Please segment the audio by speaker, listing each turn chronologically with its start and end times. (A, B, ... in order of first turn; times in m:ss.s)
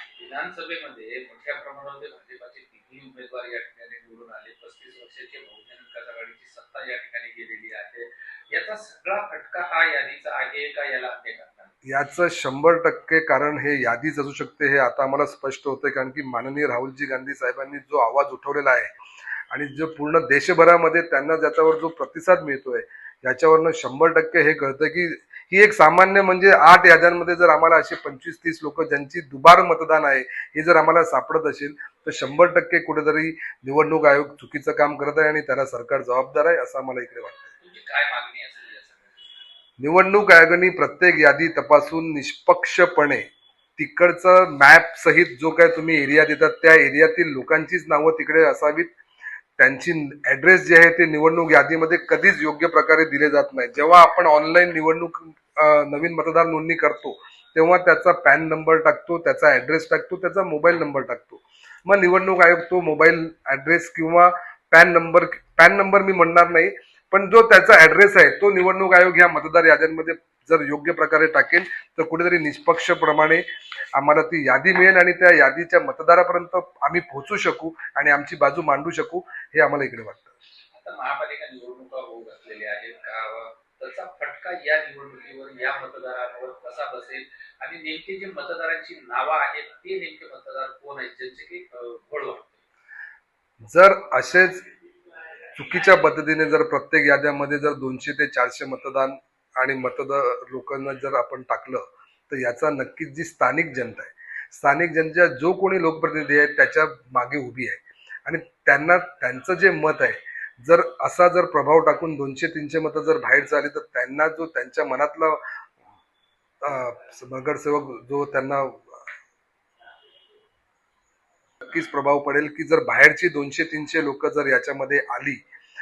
0:00.2-0:11.7 A
0:11.9-0:18.9 B
0:19.5-0:37.5 B
0:37.6-0:39.3 A
0:39.8-0:43.3 B
0:43.8-0:48.9 B
0:49.6-1:13.4 B
1:14.0-1:20.3 B
1:20.7-1:32.6 A
1:33.7-1:34.7 B
1:35.6-1:55.4 B
1:56.6-1:59.0 B
2:01.7-2:05.4 B